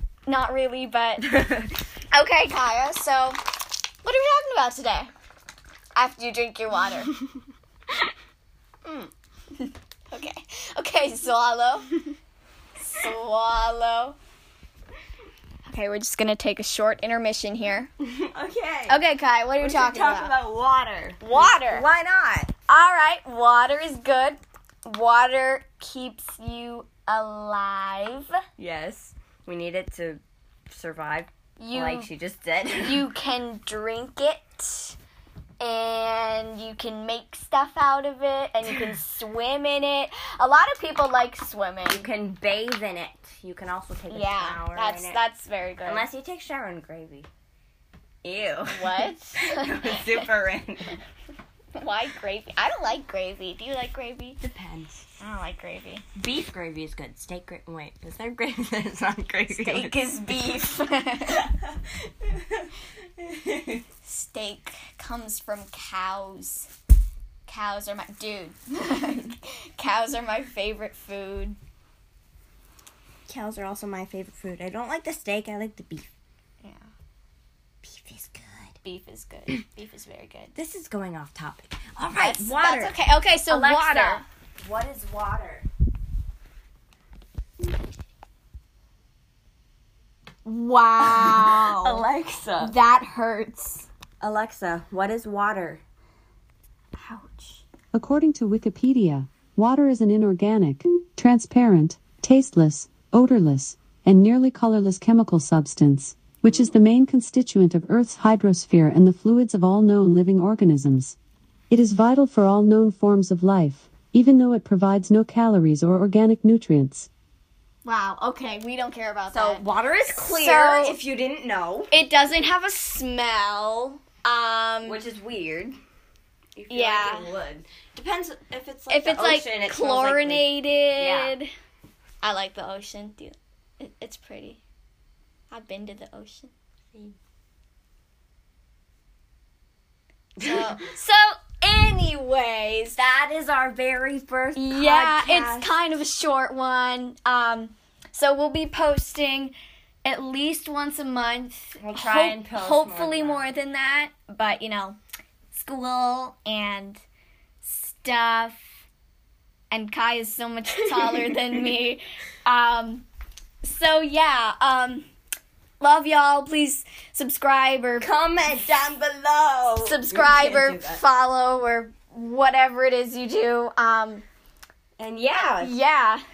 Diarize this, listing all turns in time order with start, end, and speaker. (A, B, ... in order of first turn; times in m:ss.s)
0:00.3-0:01.4 A
0:02.1-0:03.4 A
0:04.0-0:05.1 A
0:06.0-0:07.1 A
0:09.6-0:12.1 A
0:12.8-0:14.2 A
0:15.7-0:17.9 A
0:18.0-0:19.0 B
0:18.9-0:20.4 A
0:19.6-0:22.5 B
0:21.2-0:21.9 A
0:22.7-0:28.3 A
0:28.6-0:33.1 B
0:31.6-0:32.1 A
0:32.8-0:35.0 A
0:35.6-0:42.1 A
0:41.9-0:45.2 B
0:44.1-0:46.1 A
0:45.8-0:47.3 B
0:48.2-0:51.0 B
0:48.7-0:50.2 A
0:51.7-0:54.4 A
0:54.4-0:55.0 B
0:55.2-0:56.0 A
0:56.2-1:00.2 B
0:59.5-1:01.5 A
1:02.2-1:03.8 B
1:04.0-1:06.7 A
1:07.4-1:11.6 A
1:13.3-1:16.1 B
1:16.6-1:16.9 A
1:17.8-1:18.8 B
1:18.8-1:20.6 A
1:20.5-1:25.7 B
1:22.1-1:24.2 A
1:30.4-1:32.0 A
1:31.0-1:32.7 B
1:32.6-1:33.9 A
1:34.2-1:35.8 B
1:37.0-1:37.6 A
1:37.9-1:51.2 C
1:51.7-1:57.1 C
1:57.8-2:01.0 A
1:59.3-2:01.9 B
2:01.9-2:05.0 A
2:04.8-2:05.8 B
2:06.6-2:11.4 B
2:06.7-2:07.3 A
2:08.9-2:11.5 A
2:12.2-2:14.6 A
2:15.5-2:16.5 A
2:20.4-2:23.0 A
2:23.0-2:25.7 B
2:24.5-2:29.5 A
2:30.0-2:35.0 A
2:31.8-2:33.4 B
2:35.5-2:37.0 A
2:37.6-2:38.6 A
2:39.7-2:43.0 A
2:43.6-2:45.1 A
2:45.8-2:48.1 A
2:48.0-2:51.0 B
2:49.8-2:54.2 A
2:55.0-2:55.7 B
2:55.3-2:56.2 A